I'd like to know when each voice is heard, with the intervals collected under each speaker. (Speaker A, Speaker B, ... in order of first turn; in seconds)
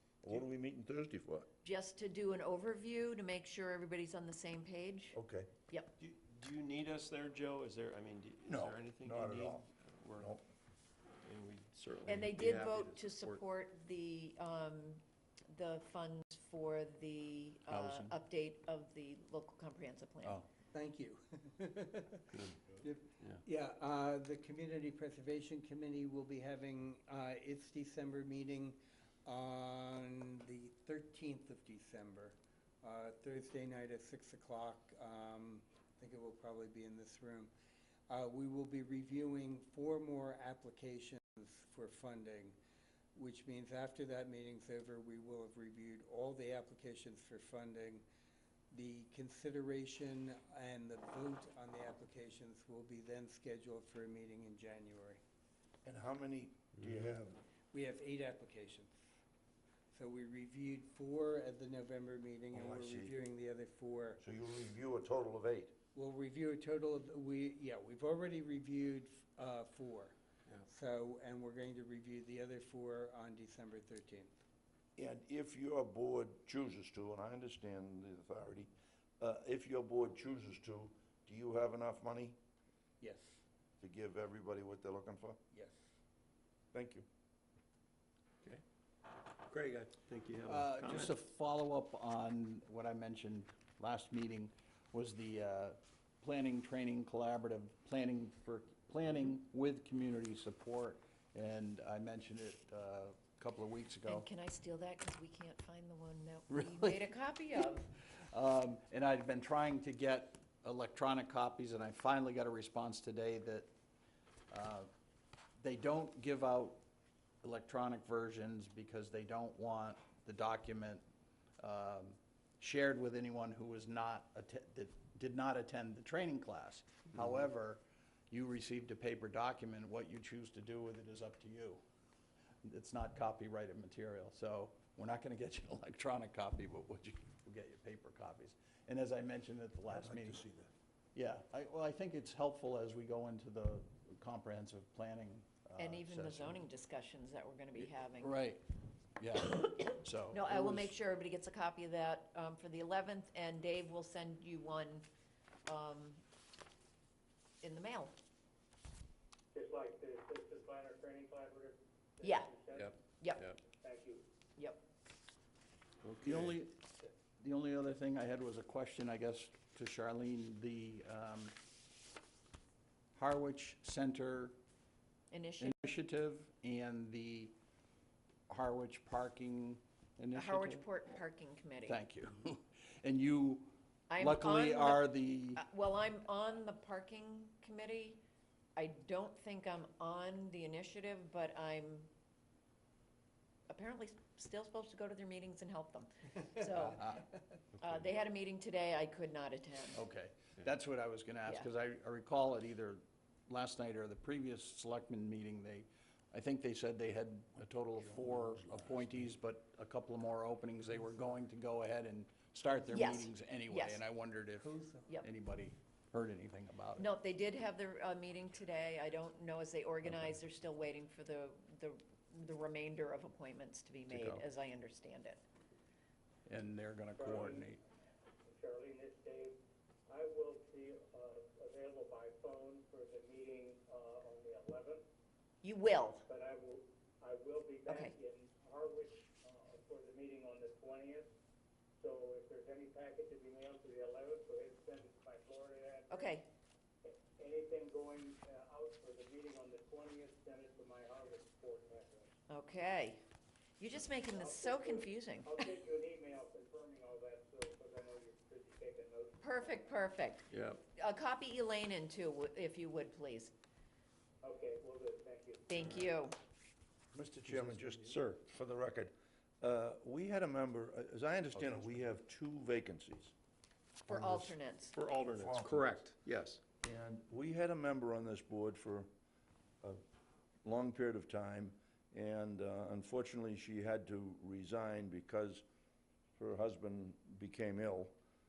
Speaker A: 0.2-1.5, 5.1-5.5, 8.5-10.4, 55.8-57.4, 62.5-63.1, 64.2-65.7, 75.0-82.4, 83.8-85.4, 86.7-87.0, 139.9-140.7, 267.1-273.3, 275.3-276.0, 276.8-279.1, 280.6-285.6, 286.4-288.1
Speaker B: 1.6-5.2, 12.1-20.4, 104.1-107.9, 145.8-148.3, 150.3-155.1, 155.7-156.2, 157.6-158.1, 162.2-163.5, 175.3-175.9, 180.3-182.0, 184.1-188.2, 188.8-192.1, 193.7-197.1, 197.8-200.0, 212.9-214.0, 217.0-225.4, 235.6-236.2, 237.8-238.2, 246.1-246.4, 252.5-253.2, 253.8-255.7, 259.4-263.5, 265.7-266.4, 274.1-274.9
Speaker C: 6.0-10.3, 11.2-13.4, 22.3-22.6, 89.5-91.1, 162.7-163.6, 166.0-166.5, 260.5-260.8, 267.5-268.4, 274.1-276.6
Speaker D: 17.7-18.1, 90.4-104.2, 106.5-107.1, 108.0-113.7, 114.5-114.9, 115.6-116.8, 117.4-121.0, 121.6-131.8, 132.6-140.4, 141.1-146.6, 148.2-148.6, 149.2-150.9, 166.2-166.8, 167.4-171.5, 173.1-174.6, 175.6-177.5, 178.5-180.9, 181.8-185.6, 197.0-197.2, 199.9-217.1, 224.1-224.4, 226.4-227.8
Speaker E: 20.7-37.5, 38.1-42.5, 43.1-48.0, 48.7-55.2, 57.7-59.0, 59.9-64.2, 65.9-74.3, 83.0-83.4, 85.5-85.8, 214.6-215.1
Speaker F: 159.5-162.9, 163.7-164.2, 227.1-227.7, 228.5-235.0, 236.3-241.3, 242.0-246.3, 247.0-252.3, 254.2-259.8, 264.4-265.7